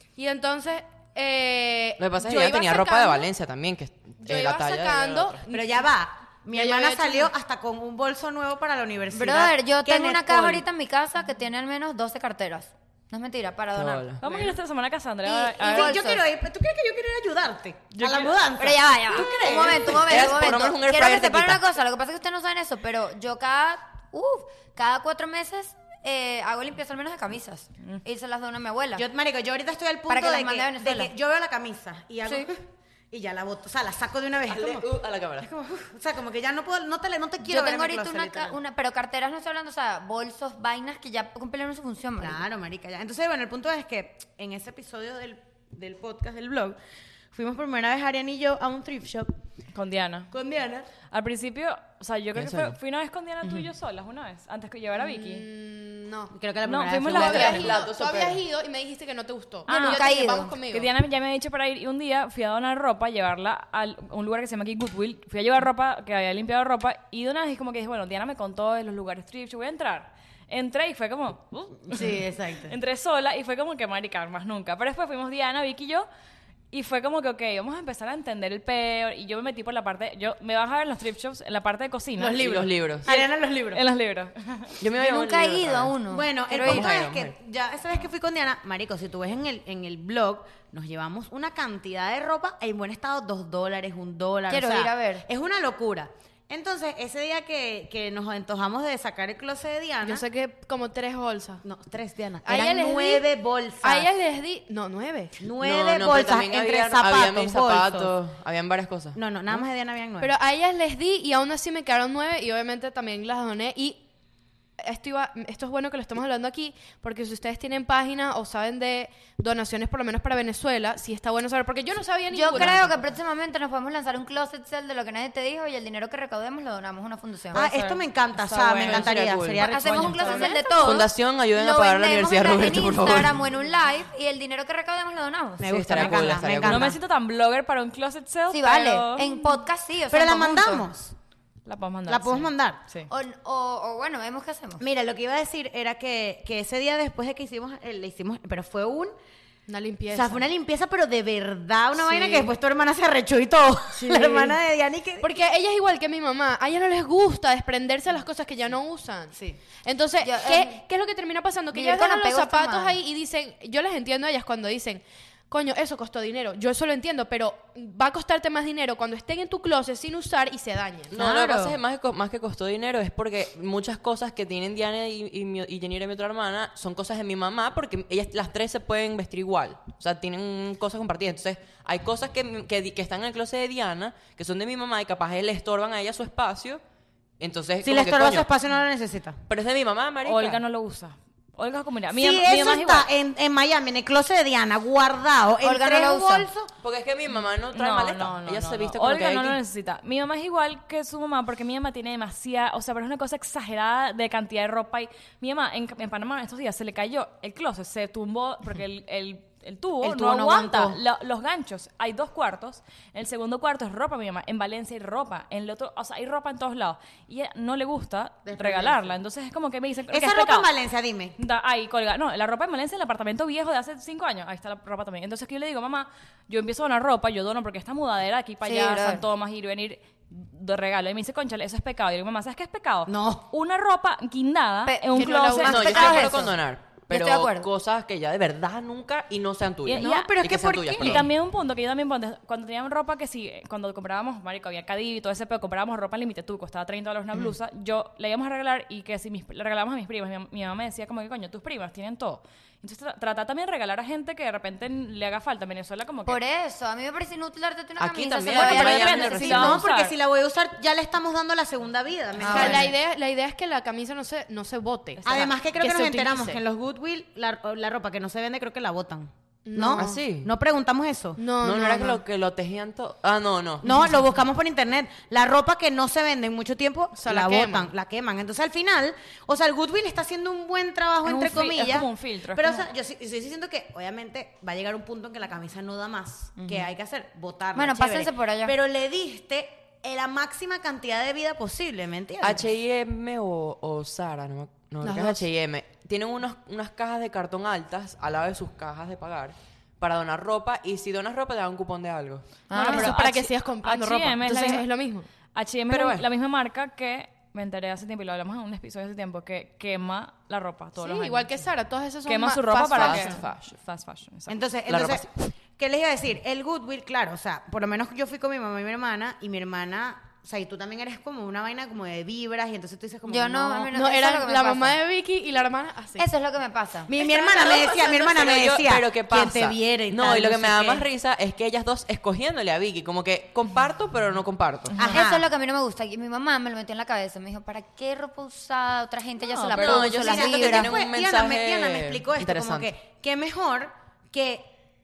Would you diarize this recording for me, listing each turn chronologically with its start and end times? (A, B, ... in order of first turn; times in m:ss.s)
0:00.2-0:03.2 A
0:02.0-0:05.5 B
0:04.2-0:05.8 A
0:05.5-0:10.6 C
0:06.5-0:07.3 A
0:09.1-0:14.1 D
0:13.7-0:14.2 B
0:14.2-0:16.0 E
0:14.2-0:14.5 C
0:15.2-0:16.2 D
0:15.6-0:20.4 C
0:17.9-0:18.3 E
0:18.6-0:29.0 D
0:19.8-0:21.6 B
0:29.0-0:38.6 C
0:30.1-0:31.1 D
0:32.2-0:32.5 D
0:34.5-0:35.5 B
0:37.4-0:42.4 D
0:42.2-0:46.8 C
0:47.3-0:49.3 C
0:49.7-0:50.3 E
0:50.3-0:50.9 C
0:51.1-0:55.4 E
0:52.3-0:52.8 B
0:55.0-0:56.3 A
0:56.3-0:57.8 C
0:56.6-0:57.7 E
0:57.1-0:58.4 B
0:57.3-1:00.9 A
0:59.6-1:16.1 E
0:59.7-1:00.5 D
1:11.9-1:12.7 C
1:16.7-1:22.4 E
1:22.2-1:23.8 C
1:22.4-1:23.1 B
1:23.7-1:24.7 E
1:24.8-1:26.0 B
1:25.0-1:26.9 D
1:26.1-1:40.2 C
1:26.6-1:27.3 B
1:34.5-1:35.2 D
1:40.0-1:41.6 A
1:41.6-1:44.1 C
1:42.4-1:43.2 A
1:43.8-1:45.3 A
1:45.4-1:48.1 C
1:45.6-1:49.6 B
1:49.1-1:50.3 C
1:50.2-1:54.0 A
1:54.8-2:02.9 A
2:02.3-2:07.6 D
2:07.5-2:10.5 C
2:07.6-2:09.2 E
2:08.6-2:09.7 B
2:09.6-2:16.2 D
2:09.9-2:10.5 E
2:10.3-2:10.7 A
2:10.7-2:13.4 B
2:15.6-2:17.0 C
2:15.7-2:16.9 B
2:16.6-2:19.5 E
2:18.5-2:20.9 D
2:20.1-2:21.1 C
2:21.6-2:23.1 E
2:22.1-2:22.8 C
2:23.1-2:24.8 D
2:24.8-2:29.1 C
2:29.7-2:30.4 A
2:30.1-2:35.3 C
2:32.1-2:32.5 A
2:34.0-2:34.6 A
2:35.2-2:51.1 A
2:39.3-2:39.6 C
2:40.2-2:40.8 D
2:41.7-2:43.0 D
2:51.1-3:06.8 B
2:51.1-2:51.8 C
3:07.4-3:08.5 B
3:07.8-3:09.4 C
3:09.5-3:10.6 B
3:10.2-3:13.1 E
3:12.1-3:16.7 C
3:15.6-3:16.5 D
3:16.8-3:19.6 B
3:17.3-3:40.7 E
3:30.0-3:31.0 C
3:38.4-3:39.1 C
3:40.1-3:41.4 C
3:41.4-3:56.3 E
3:48.6-3:49.2 D
3:53.1-3:53.4 C
3:54.8-3:56.6 D
3:55.1-3:55.7 A
3:55.6-4:01.3 B
3:57.1-3:57.7 D
3:59.8-4:00.4 E
4:00.0-4:01.2 C
4:01.0-4:16.4 E
4:16.2-4:19.8 D
4:18.0-4:19.8 B
4:18.5-4:20.1 E
4:19.5-4:22.9 C
4:22.4-4:22.9 D
4:22.5-4:26.6 A
4:25.2-4:31.5 C
4:29.6-4:30.2 A
4:30.0-4:30.5 B
4:31.4-4:32.2 A
4:31.5-4:33.9 B
4:33.8-4:52.7 C
4:37.2-4:37.9 A
4:41.2-4:42.9 E
4:46.6-4:46.9 D
4:47.7-4:48.7 D
4:52.4-5:02.4 B
4:55.1-4:55.4 A
5:02.7-5:03.1 D
5:02.7-5:04.8 E
5:02.9-5:05.3 A
5:05.5-5:11.6 E
5:05.9-5:06.3 B
5:11.0-5:13.3 A
5:12.2-5:14.6 E
5:12.9-5:13.6 B
5:14.5-5:23.9 C
5:14.9-5:15.5 B
5:23.2-5:25.0 D
5:23.9-5:26.2 A
5:26.2-5:27.1 D
5:27.1-5:31.0 C
5:27.5-5:35.0 B
5:34.9-5:35.2 E
5:35.0-5:35.4 C
5:35.0-5:41.0 D
5:39.4-5:40.1 E
5:39.8-5:42.9 B
5:40.2-5:44.7 C